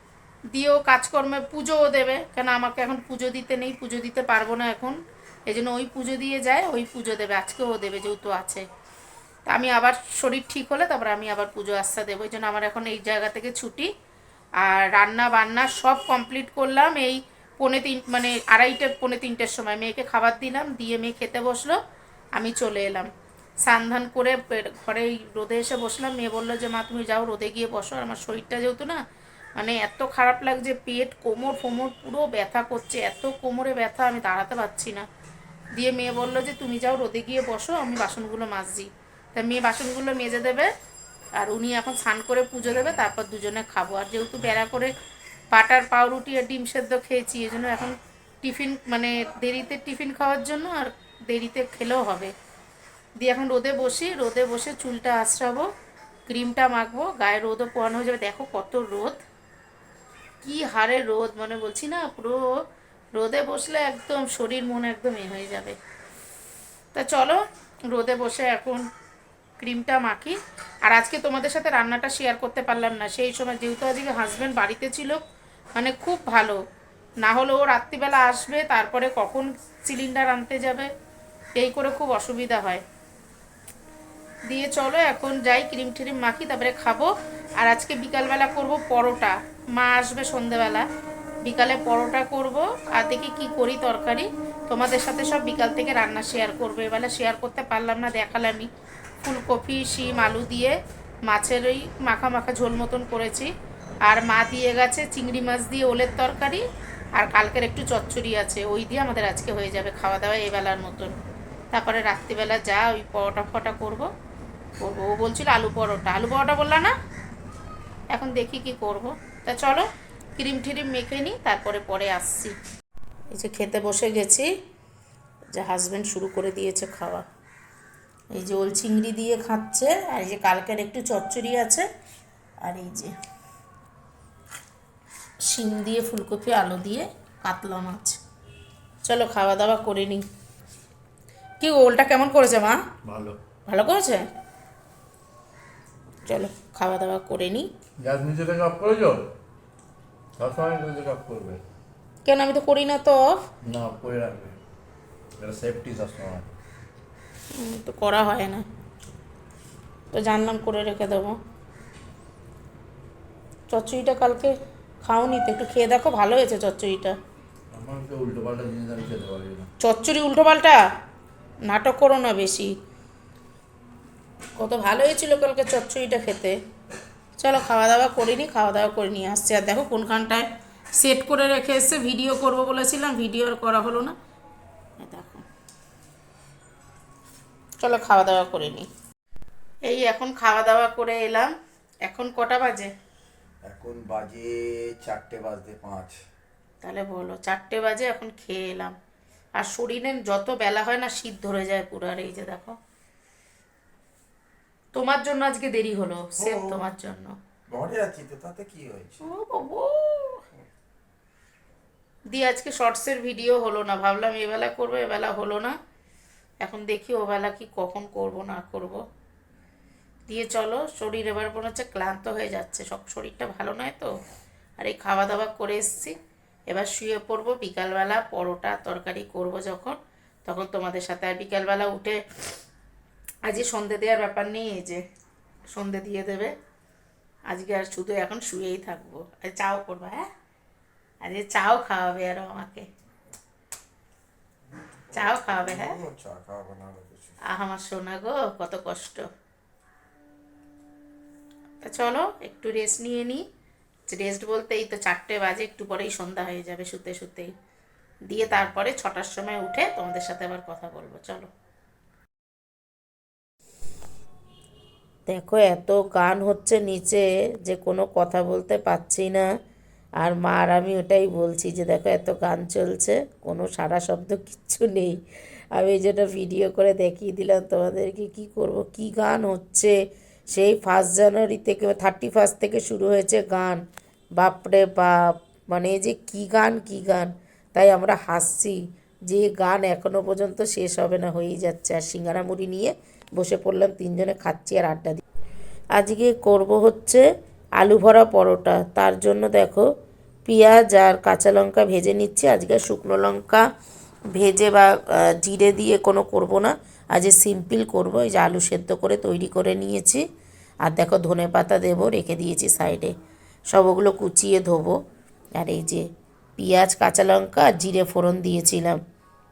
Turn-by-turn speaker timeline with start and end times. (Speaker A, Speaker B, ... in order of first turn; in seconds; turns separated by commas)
Speaker A: 0.5-8.7, Speaker A: 9.4-13.9, Speaker A: 14.6-21.8, Speaker A: 22.4-23.1, Speaker A: 23.6-29.0, Speaker A: 29.6-35.0, Speaker A: 35.7-40.7, Speaker A: 41.4-44.9, Speaker A: 45.5-52.3, Speaker A: 53.2-55.7, Speaker A: 56.3-59.2, Speaker A: 60.4-62.4, Speaker A: 63.1-65.8, Speaker A: 66.9-67.4, Speaker A: 67.9-68.8, Speaker A: 69.6-75.2, Speaker A: 75.8-76.6, Speaker A: 77.2-80.9, Speaker A: 81.5-82.8, Speaker A: 84.5-90.8, Speaker A: 91.4-98.7, Speaker A: 99.2-100.8, Speaker A: 101.3-103.5, Speaker A: 104.0-106.6, Speaker A: 107.2-111.1, Speaker A: 111.7-114.1, Speaker A: 114.8-116.9, Speaker A: 118.1-122.5, Speaker A: 123.3-124.5, Speaker A: 125.5-127.2, Speaker A: 128.3-131.8, Speaker A: 132.6-133.1, Speaker A: 135.4-138.2, Speaker A: 139.0-140.2, Speaker A: 141.6-142.8, Speaker B: 143.0-143.4, Speaker A: 143.7-144.3, Speaker A: 146.2-147.7, Speaker B: 148.0-149.3, Speaker B: 150.4-151.6, Speaker A: 152.2-153.4, Speaker B: 153.6-154.6, Speaker B: 155.4-156.5, Speaker A: 157.6-158.6, Speaker A: 160.1-161.4, Speaker A: 163.7-167.2, Speaker B: 167.7-169.7, Speaker A: 169.8-170.8, Speaker A: 171.7-172.7, Speaker A: 174.6-176.6, Speaker A: 177.4-184.1, Speaker A: 185.0-185.4, Speaker A: 187.8-188.9, Speaker A: 189.9-191.5, Speaker A: 192.1-192.9, Speaker C: 193.7-196.2, Speaker A: 196.8-198.9, Speaker A: 199.6-202.8, Speaker A: 204.9-207.3, Speaker C: 206.4-206.8, Speaker C: 207.7-209.2, Speaker A: 209.2-210.4, Speaker A: 212.3-215.7, Speaker A: 216.6-219.0, Speaker A: 220.3-224.2, Speaker A: 224.8-226.2, Speaker A: 226.7-232.2, Speaker A: 233.4-235.0, Speaker A: 235.7-236.5, Speaker A: 237.5-240.2, Speaker A: 241.2-242.8, Speaker C: 245.1-247.4, Speaker A: 245.1-245.9, Speaker A: 247.5-249.2, Speaker A: 251.8-253.4, Speaker A: 254.1-257.5, Speaker A: 258.3-261.5, Speaker A: 265.3-269.4, Speaker A: 270.2-275.1, Speaker A: 275.7-279.9, Speaker A: 280.5-283.8, Speaker A: 284.4-295.2, Speaker A: 295.9-297.2, Speaker A: 297.8-299.9, Speaker A: 300.5-303.6, Speaker A: 304.3-310.2, Speaker A: 310.8-313.1, Speaker A: 313.7-314.9, Speaker A: 315.6-316.1, Speaker A: 316.6-319.0